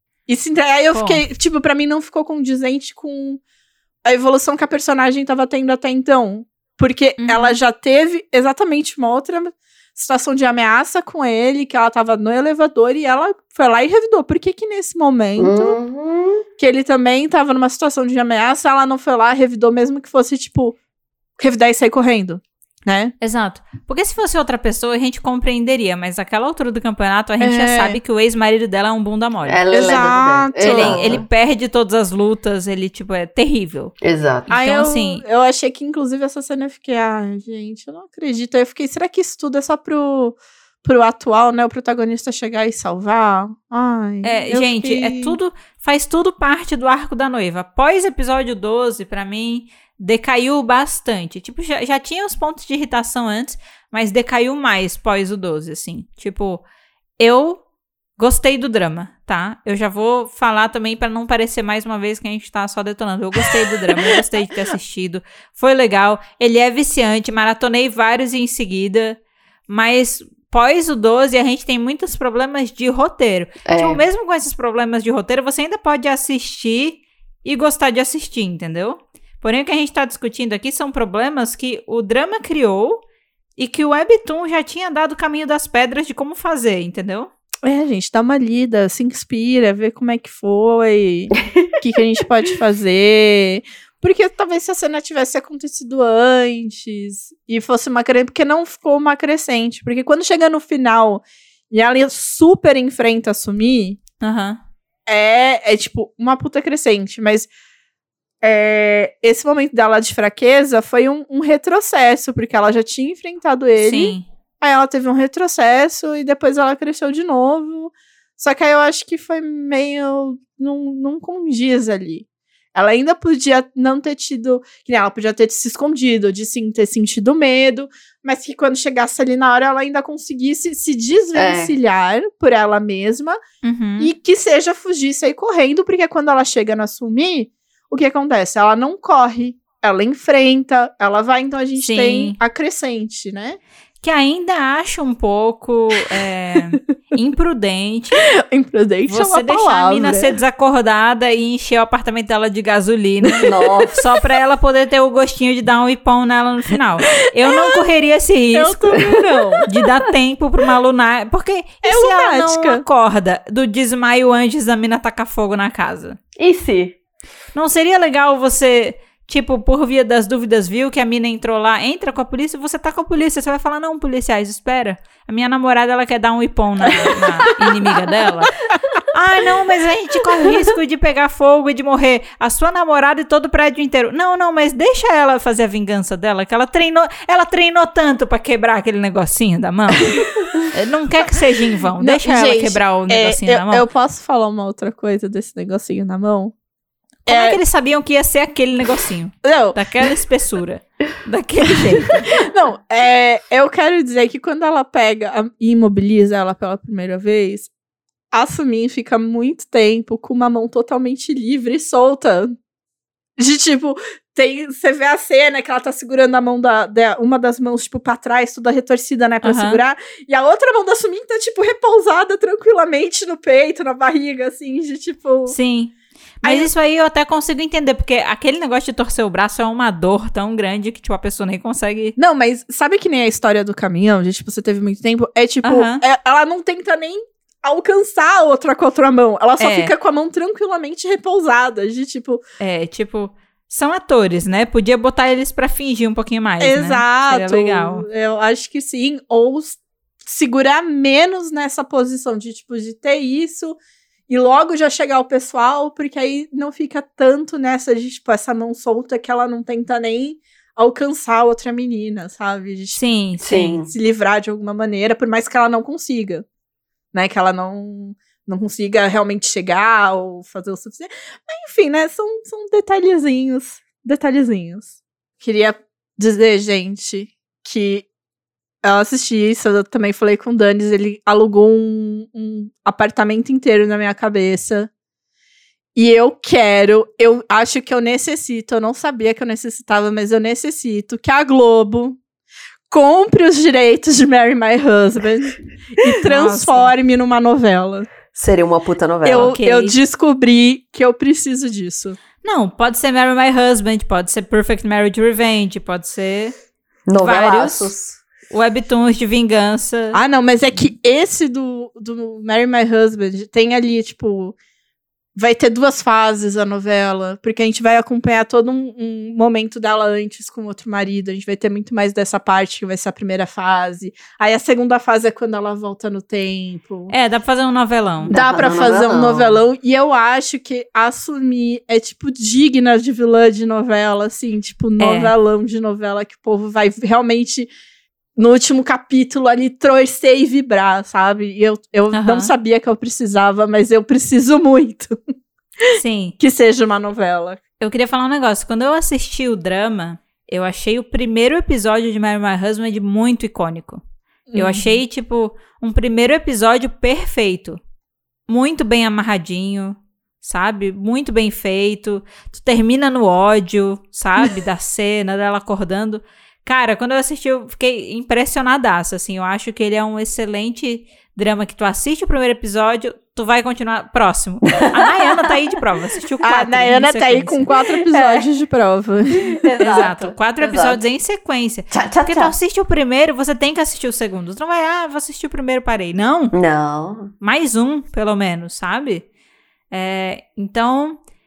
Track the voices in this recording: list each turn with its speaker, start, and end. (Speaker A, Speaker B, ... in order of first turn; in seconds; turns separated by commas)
Speaker A: 0.3-3.4, Speaker B: 0.9-1.2, Speaker A: 4.0-15.8, Speaker B: 7.2-7.6, Speaker C: 15.4-16.4, Speaker A: 16.6-20.8, Speaker A: 21.4-23.1, Speaker B: 23.2-30.0, Speaker A: 27.4-28.0, Speaker C: 29.4-31.2, Speaker A: 29.7-31.2, Speaker B: 30.6-34.0, Speaker C: 34.0-34.5, Speaker B: 34.5-35.2, Speaker A: 34.5-45.4, Speaker B: 44.2-56.6, Speaker B: 57.2-57.6, Speaker B: 58.2-83.0, Speaker C: 73.7-74.0, Speaker B: 83.6-87.3, Speaker A: 87.6-104.0, Speaker B: 104.2-104.6, Speaker A: 105.1-107.5, Speaker A: 108.4-133.4, Speaker B: 113.8-114.3, Speaker C: 131.3-131.7, Speaker B: 133.6-134.1, Speaker A: 134.0-143.6, Speaker B: 141.8-142.4, Speaker B: 144.0-148.2, Speaker A: 148.4-150.3, Speaker B: 149.1-166.2, Speaker C: 153.4-154.0, Speaker A: 158.5-159.7, Speaker A: 161.8-162.8, Speaker C: 166.4-167.0, Speaker B: 167.5-193.8, Speaker C: 176.9-177.5, Speaker A: 192.0-196.5, Speaker B: 197.2-202.3, Speaker A: 197.3-197.6, Speaker A: 199.4-199.8, Speaker A: 202.3-207.7, Speaker A: 208.3-212.5, Speaker A: 213.4-225.6, Speaker B: 219.4-219.8, Speaker B: 225.5-232.1, Speaker A: 226.4-226.7, Speaker A: 232.2-242.4, Speaker B: 235.6-236.0, Speaker B: 239.6-239.9, Speaker B: 242.6-248.1, Speaker A: 246.6-253.8, Speaker A: 254.3-263.0, Speaker B: 262.9-263.8, Speaker C: 263.4-263.9, Speaker A: 263.8-266.4, Speaker A: 267.1-274.9, Speaker A: 275.4-278.0, Speaker A: 278.8-284.9, Speaker A: 285.9-292.2, Speaker A: 292.9-298.1, Speaker B: 296.3-296.9, Speaker C: 298.3-299.5, Speaker A: 299.2-302.2, Speaker B: 299.3-299.9, Speaker B: 302.4-306.5, Speaker C: 307.1-308.2, Speaker B: 307.2-307.9, Speaker B: 308.5-310.2, Speaker A: 310.1-314.5, Speaker A: 315.4-327.1, Speaker B: 327.1-328.4, Speaker C: 328.3-329.6, Speaker A: 328.3-337.7, Speaker B: 335.0-335.3, Speaker A: 338.4-345.2, Speaker B: 342.1-342.5, Speaker A: 345.9-347.6, Speaker B: 345.9-346.4, Speaker B: 347.8-354.0, Speaker A: 354.5-355.0, Speaker B: 354.5-357.8, Speaker B: 358.5-377.7, Speaker C: 374.8-375.6, Speaker A: 376.4-379.6, Speaker C: 378.1-378.5, Speaker C: 379.4-381.0, Speaker B: 379.8-386.5, Speaker C: 381.9-382.5, Speaker C: 386.5-387.3, Speaker B: 387.4-389.2, Speaker B: 389.9-391.2